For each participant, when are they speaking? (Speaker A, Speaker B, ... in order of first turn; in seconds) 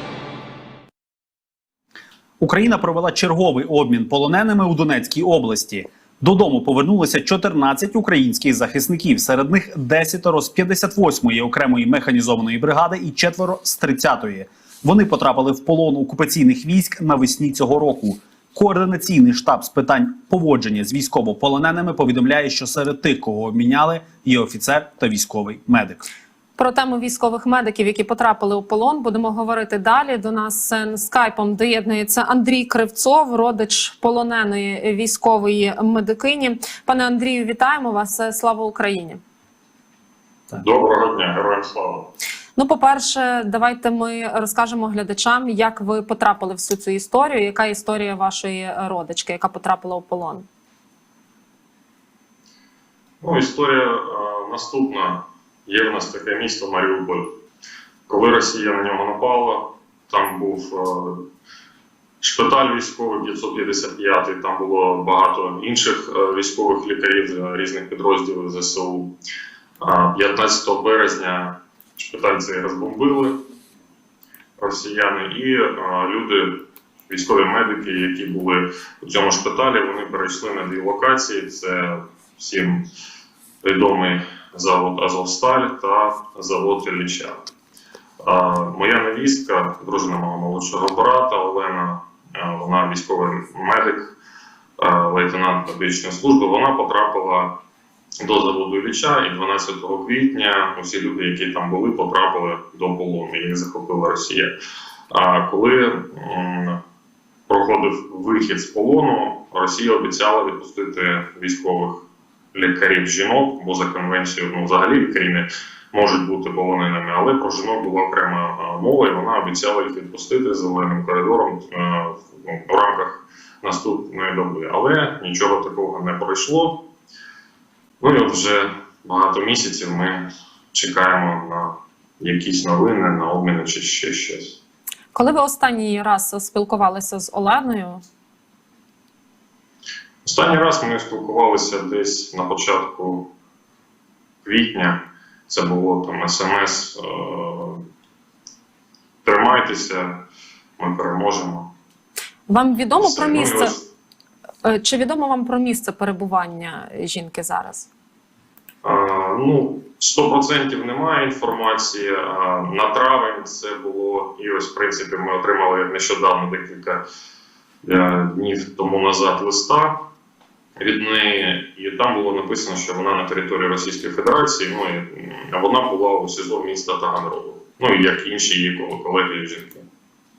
Speaker A: 2.4-26.0
Speaker B: 26.6-39.2, 42.5-50.5, 135.1-138.0, 152.5-153.7, 154.6-157.9
Speaker C: 40.5-42.1, 53.2-57.4, 58.1-61.2, 62.2-69.1, 69.8-73.4, 74.6-82.9, 83.6-87.4, 88.2-94.1, 94.8-97.6, 98.2-104.5, 105.1-106.8, 107.5-126.8, 128.0-134.6, 140.2-143.3, 144.4-147.8, 149.2-150.2, 150.8-151.7, 153.0-153.9, 158.8-167.0, 167.8-170.1, 170.8-179.8